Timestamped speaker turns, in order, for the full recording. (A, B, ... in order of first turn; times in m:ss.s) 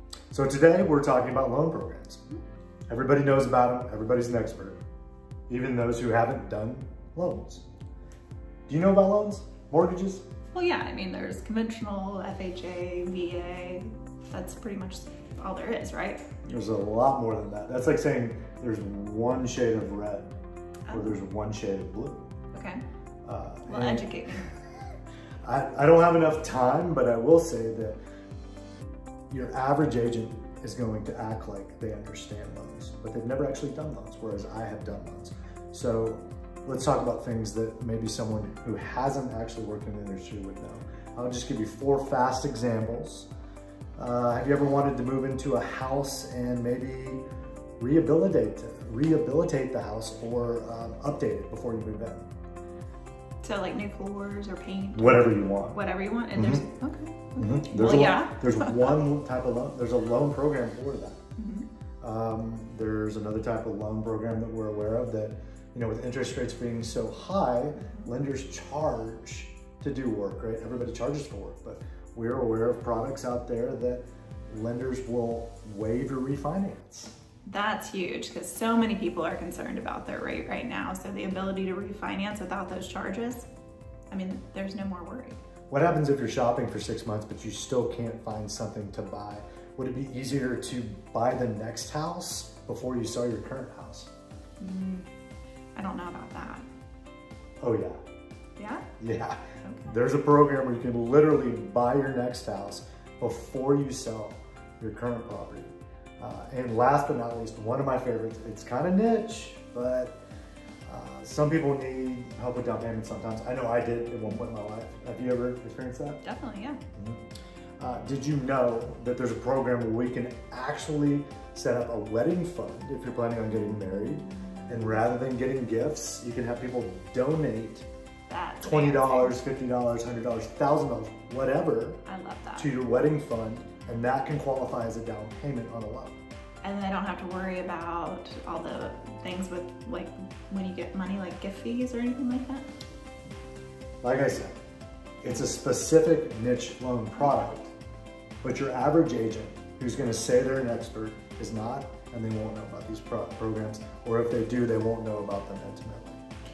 0:00.3-0:02.2 A
0:02.9-0:04.8 A
0:05.5-0:07.6 A
0:08.7-0:10.2 A
0:10.5-0:16.2 B
0:16.4-0:20.3 A
0:20.9-0:21.2 B
0:20.9-0:22.3 A
0:22.5-0:22.8 B
0:23.2-0:24.1 A
0:23.7-0:24.5 B
0:25.4-0:28.0 A
0:29.3-0:43.3 A
0:44.0-0:47.2 A
0:47.8-0:52.3 A
0:53.4-0:59.0 B
0:54.9-0:55.8 A
0:56.3-0:56.6 A
0:57.4-1:01.2 A
1:01.4-1:01.7 B
1:02.0-1:17.2 A
1:17.4-1:23.5 B
1:24.1-1:25.4 B
1:25.7-1:34.1 A
1:34.6-1:35.0 B
1:35.7-1:36.6 B
1:37.6-1:38.0 A
1:38.6-1:38.8 B
1:39.0-1:50.2 A
1:39.6-1:39.9 B
1:50.8-1:56.2 A
1:56.2-1:56.8 B
1:56.9-1:57.2 A
1:57.8-2:07.9 A
2:08.3-2:09.4 B
2:08.6-2:12.0 A
2:12.0-2:12.7 B
2:12.6-2:16.2 A
2:16.6-2:22.7 B
2:24.0-2:24.5 A
2:25.2-2:27.7 A
2:28.4-2:36.2 A